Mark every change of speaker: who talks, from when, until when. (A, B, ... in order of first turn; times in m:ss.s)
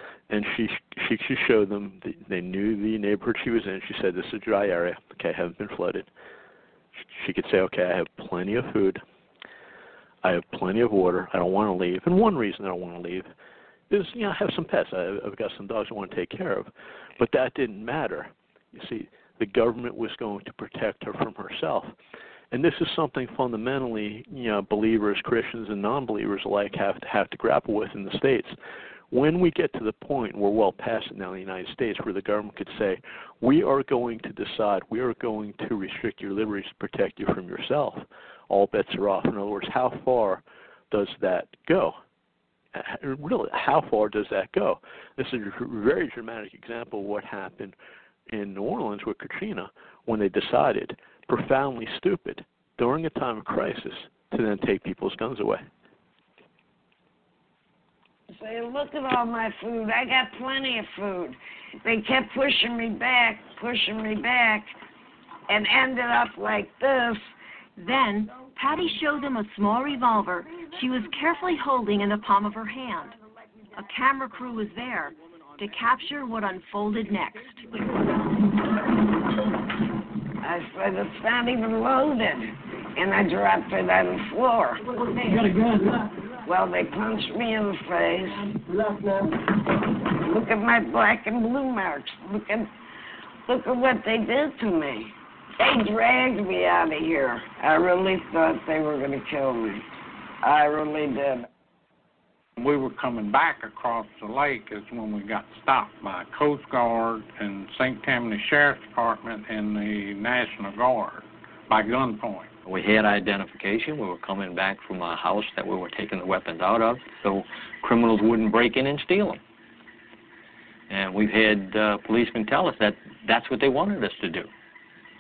0:00.3-0:06.1 A
0:07.0-0:09.0 A
0:10.2-0:13.3 A
0:13.9-0:21.9 A
0:22.5-0:28.6 A
0:29.1-0:42.0 A
0:42.7-0:47.8 A
0:48.3-0:55.6 A
0:58.3-1:04.7 B
1:05.5-1:07.3 B
1:07.8-1:13.2 C
1:13.7-1:17.8 C
1:20.4-1:25.7 B
1:26.4-1:32.7 B
1:33.4-1:39.8 B
1:40.4-1:41.5 B
1:42.6-1:52.5 D
1:52.6-1:59.4 E
2:00.9-2:04.5 E